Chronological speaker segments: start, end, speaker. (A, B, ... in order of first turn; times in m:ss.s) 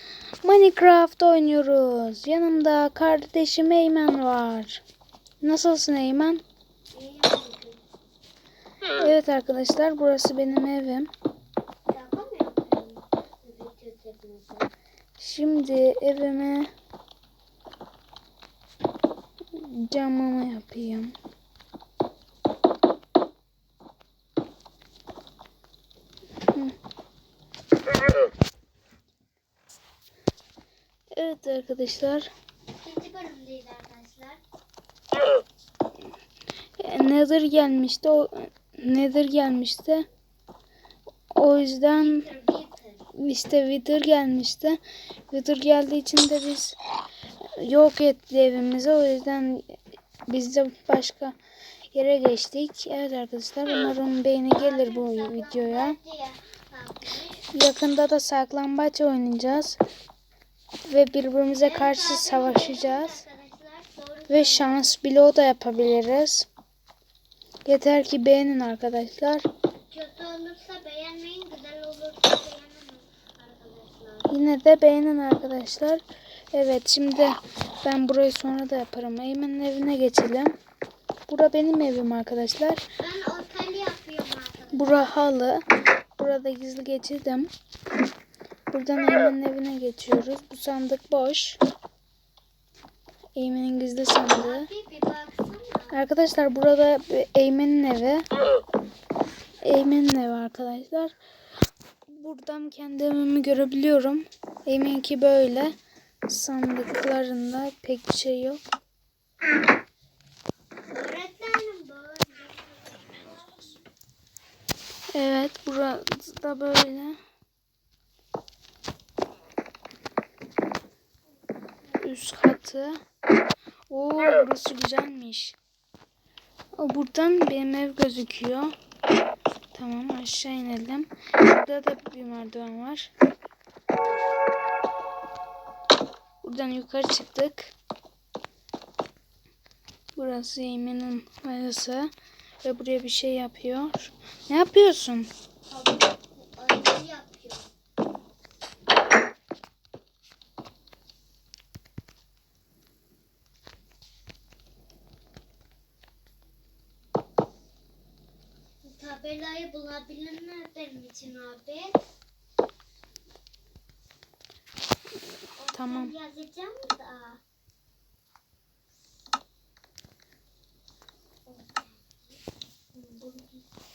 0:00.4-0:04.8 A
0:05.4-0:06.4 A
0:06.9-0:07.8 B
0:09.0-0:11.1 A
0:11.9-0:14.7 B
0:15.2-0:16.7 A
0:19.5-0:21.1 A
0:31.1-0:32.3 A
0:32.7-0:34.4 B
0:36.8-0:40.0 A
0:41.3-0:42.2 A
0:41.9-0:43.1 B
0:43.2-0:44.8 A
0:45.3-0:46.7 A
0:47.6-0:51.3 A
0:51.9-0:56.0 A
0:54.5-0:57.4 B
0:57.5-0:59.8 A
1:00.9-1:03.2 A
1:01.6-1:05.0 B
1:04.3-1:06.5 A
1:07.6-1:09.4 A
1:09.9-1:14.3 B
1:14.3-1:20.5 A
1:21.3-1:22.8 A
1:23.0-1:25.0 B
1:24.7-1:25.6 A
1:26.2-1:27.5 A
1:28.7-1:31.6 A
1:33.4-1:34.7 A
1:34.3-1:36.0 B
1:35.9-1:38.2 A
1:39.6-1:41.1 A
1:42.1-1:45.7 A
1:46.3-1:48.6 A
1:50.9-1:53.7 B
1:55.1-1:57.2 A
2:02.0-2:03.0 A
2:03.9-2:05.6 A
2:06.8-2:08.7 A
2:09.7-2:13.1 A
2:16.4-2:17.7 A
2:20.2-2:22.1 A
2:22.6-2:25.3 A
2:25.7-2:27.7 B
2:38.8-2:42.0 B
2:45.6-2:47.4 B
2:45.7-2:46.1 A
2:51.4-2:52.4 B
2:52.9-2:53.6 B